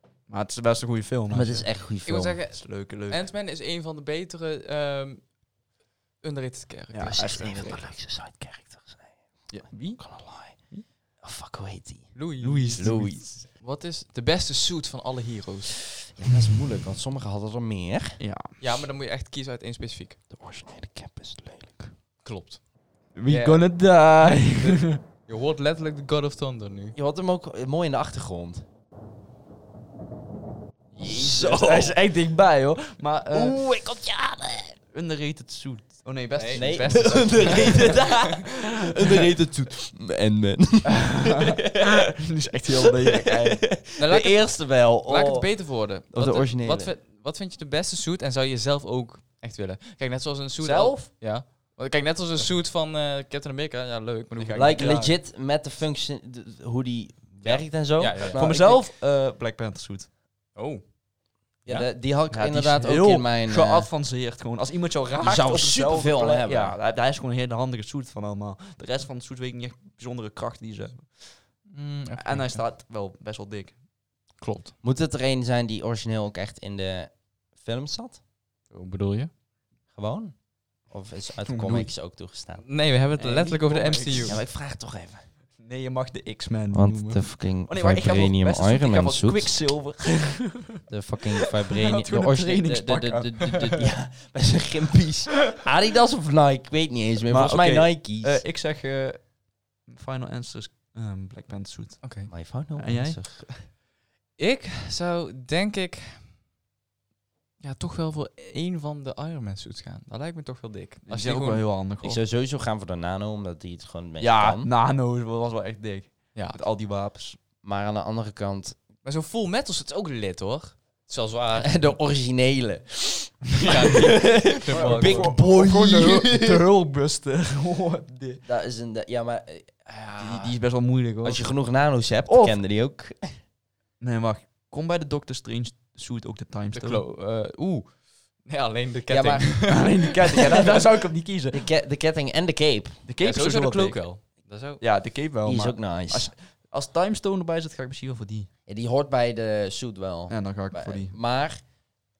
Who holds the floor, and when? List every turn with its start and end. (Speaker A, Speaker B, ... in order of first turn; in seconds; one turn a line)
Speaker A: 0.3-1.7
Speaker B: 1.3-2.4
Speaker C: 2.0-5.3
Speaker A: 2.6-3.2
Speaker C: 6.2-7.2
Speaker A: 6.9-7.9
Speaker B: 7.0-9.1
Speaker A: 9.5-10.8
Speaker B: 10.0-12.2
Speaker C: 12.1-15.8
Speaker A: 12.4-13.3
Speaker B: 12.8-13.2
Speaker B: 16.1-18.2
Speaker A: 18.2-18.6
Speaker C: 18.6-20.2
Speaker B: 20.3-21.9
Speaker C: 22.2-22.6
Speaker A: 23.1-25.0
Speaker C: 23.3-23.6
Speaker C: 24.5-26.9
Speaker B: 26.9-28.6
Speaker B: 30.9-32.0
Speaker A: 31.0-33.6
Speaker B: 33.3-34.8
Speaker A: 34.9-38.0
Speaker C: 36.3-38.3
Speaker B: 36.5-41.9
Speaker A: 40.9-43.7
Speaker B: 43.0-46.9
Speaker C: 44.0-54.9
Speaker A: 50.6-51.1
Speaker A: 54.4-55.2
Speaker B: 54.5-58.9
Speaker A: 57.5-60.1
Speaker C: 58.0-58.5
Speaker C: 60.5-60.9
Speaker B: 61.6-63.9
Speaker A: 62.3-71.5
Speaker B: 65.2-66.8
Speaker C: 71.7-72.6
Speaker A: 72.2-73.8
Speaker C: 74.4-74.7
Speaker B: 74.8-78.2
Speaker C: 78.7-79.3
Speaker B: 79.9-80.3
Speaker B: 80.9-82.6
Speaker A: 81.5-81.9
Speaker C: 82.6-84.4
Speaker A: 83.2-84.4
Speaker B: 84.2-85.2
Speaker A: 85.6-90.8
Speaker B: 86.7-89.6
Speaker B: 90.9-98.4
Speaker A: 91.4-93.7
Speaker A: 97.3-102.2
Speaker C: 102.0-102.3
Speaker B: 102.3-103.5
Speaker A: 102.8-103.5
Speaker C: 104.4-106.3
Speaker C: 107.6-111.6
Speaker A: 111.1-112.2
Speaker B: 112.0-114.7
Speaker A: 114.2-117.4
Speaker B: 117.6-118.8
Speaker C: 119.0-121.9
Speaker B: 121.6-126.6
Speaker C: 123.6-125.3
Speaker A: 124.7-128.4
Speaker B: 128.4-130.6
Speaker A: 130.2-131.5
Speaker B: 131.2-133.4
Speaker A: 132.2-132.6
Speaker A: 134.0-137.0
Speaker C: 136.7-140.6
Speaker B: 139.1-139.7
Speaker A: 139.7-141.6
Speaker B: 141.5-143.0
Speaker A: 143.1-144.0
Speaker C: 143.2-144.8
Speaker A: 144.8-148.5
Speaker B: 145.4-146.3
Speaker B: 148.7-151.6
Speaker A: 150.3-151.2